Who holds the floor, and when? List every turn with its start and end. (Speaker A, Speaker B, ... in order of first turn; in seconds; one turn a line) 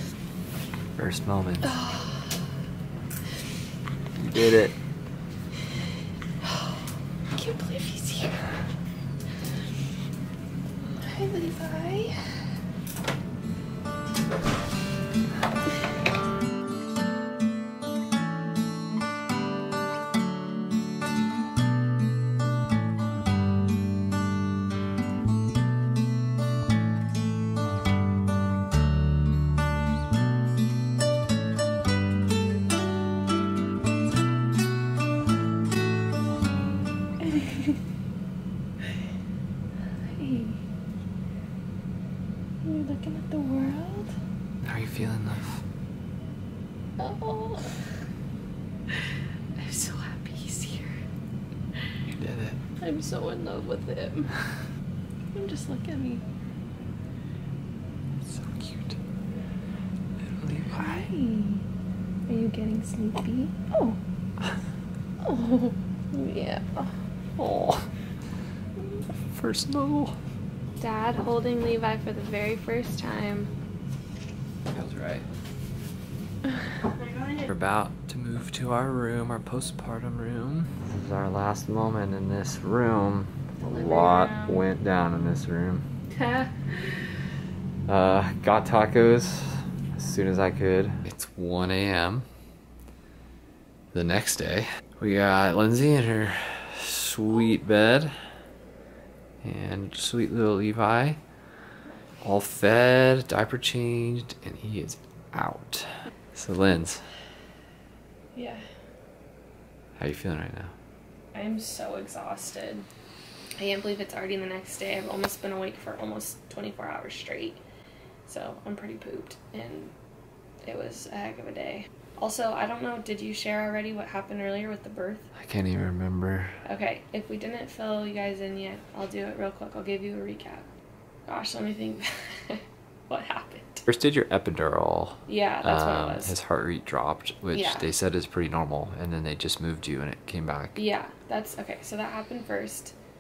Speaker A: 1.0-1.8
Speaker B: 1.6-2.5
Speaker A: 4.2-4.8
Speaker B: 6.4-6.8
Speaker B: 7.3-8.6
Speaker B: 11.0-12.5
Speaker B: 37.2-37.8
Speaker B: 40.0-40.6
Speaker B: 42.6-44.1
Speaker A: 44.6-45.6
Speaker B: 47.0-47.9
Speaker B: 48.9-51.0
Speaker A: 52.1-52.6
Speaker B: 52.8-54.5
Speaker B: 55.3-56.2
Speaker A: 58.2-59.0
Speaker A: 60.2-61.1
Speaker B: 60.8-61.6
Speaker B: 62.3-64.0
Speaker B: 65.2-67.0
Speaker A: 67.4-67.9
Speaker A: 69.3-70.2
Speaker B: 70.8-73.5
Speaker A: 74.7-75.3
Speaker A: 77.3-85.9
Speaker B: 83.6-84.6
Speaker B: 86.1-87.0
Speaker A: 87.9-92.3
Speaker A: 93.9-98.1
Speaker A: 99.4-101.2
Speaker A: 102.2-107.1
Speaker B: 108.3-108.6
Speaker A: 110.0-110.7
Speaker B: 111.3-112.9
Speaker B: 113.6-117.6
Speaker B: 118.3-119.9
Speaker B: 120.7-125.3
Speaker A: 125.3-126.6
Speaker B: 126.7-130.7
Speaker B: 131.3-133.9
Speaker A: 133.9-140.8
Speaker B: 135.3-136.3
Speaker B: 137.5-137.9
Speaker B: 140.8-142.9